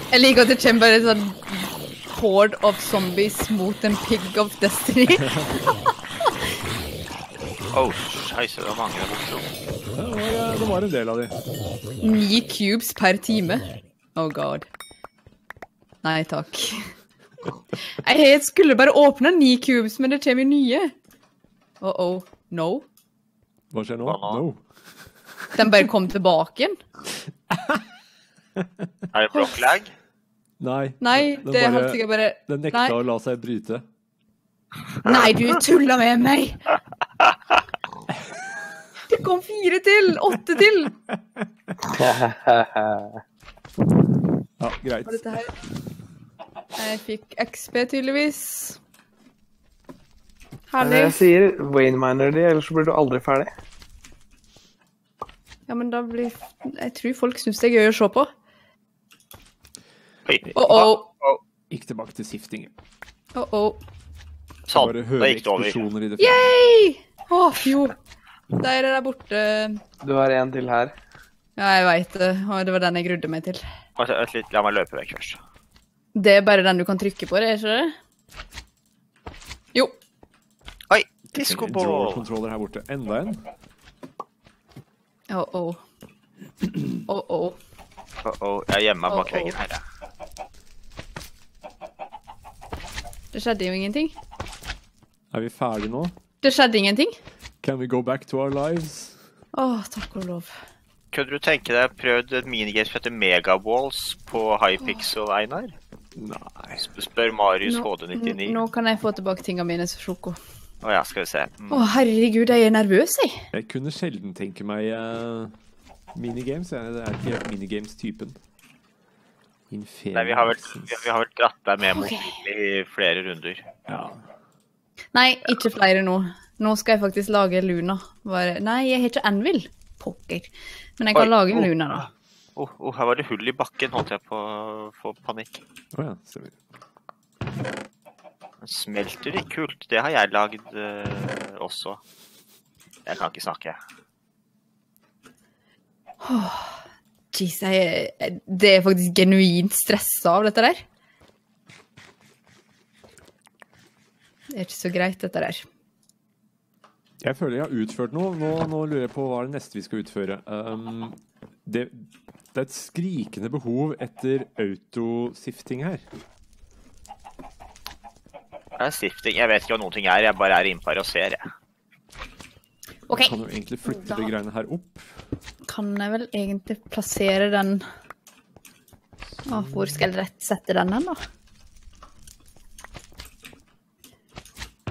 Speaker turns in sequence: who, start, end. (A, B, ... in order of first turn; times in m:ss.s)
0:00.1-0:06.3 A
0:05.1-0:05.7 B
0:07.7-0:09.5 C
0:09.9-0:11.4 B
0:12.0-0:14.6 A
0:16.0-0:16.9 A
0:17.9-0:20.9 A
0:21.8-0:22.8 A
0:23.7-0:24.6 B
0:24.0-0:24.4 C
0:25.5-0:26.8 A
0:27.5-0:27.8 B
0:28.6-0:28.9 B
0:29.1-0:29.9 C
0:30.6-0:33.8 B
0:31.0-0:32.9 A
0:35.0-0:36.7 A
0:39.1-0:40.9 A
0:41.1-0:41.5 B
0:41.8-0:43.2 D
0:44.6-0:45.4 B
0:45.0-0:45.5 A
0:46.8-0:48.8 A
0:50.7-0:51.2 A
0:50.8-0:53.5 D
0:55.7-0:58.3 A
1:00.2-1:01.4 C
1:00.6-1:01.1 A
1:01.7-1:02.7 B
1:03.3-1:03.8 A
1:04.7-1:05.8 C
1:04.7-1:06.5 B
1:06.2-1:08.0 A
1:08.5-1:09.8 A
1:10.0-1:10.9 D
1:11.6-1:13.6 A
1:14.0-1:15.4 C
1:16.1-1:17.9 A
1:20.9-1:22.2 C
1:21.3-1:23.4 B
1:25.3-1:25.8 A
1:27.0-1:27.6 A
1:28.2-1:29.8 C
1:29.1-1:29.6 A
1:33.3-1:34.1 A
1:35.3-1:36.1 B
1:36.4-1:37.1 A
1:37.6-1:39.2 B
1:39.5-1:40.6 A
1:41.1-1:45.7 C
1:46.2-1:46.9 B
1:46.8-1:48.6 C
1:47.7-1:50.4 A
1:50.8-1:51.8 C
1:51.7-1:53.5 A
1:53.5-1:55.5 B
1:56.1-1:58.4 B
1:59.7-2:01.1 B
2:00.1-2:03.6 C
2:01.8-2:02.4 A
2:03.9-2:04.2 B
2:05.1-2:12.1 A
2:11.1-2:12.0 C
2:12.6-2:15.6 C
2:15.9-2:16.6 B
2:18.6-2:22.0 C
2:23.0-2:23.8 C
2:26.2-2:30.8 A
2:34.5-2:35.7 A
2:37.2-2:46.0 B
2:48.8-2:51.5 C
2:53.1-2:53.3 A
2:53.1-2:55.2 B
2:53.9-2:54.2 A
2:55.6-2:57.8 A
2:59.4-3:01.2 A
2:59.5-3:00.0 B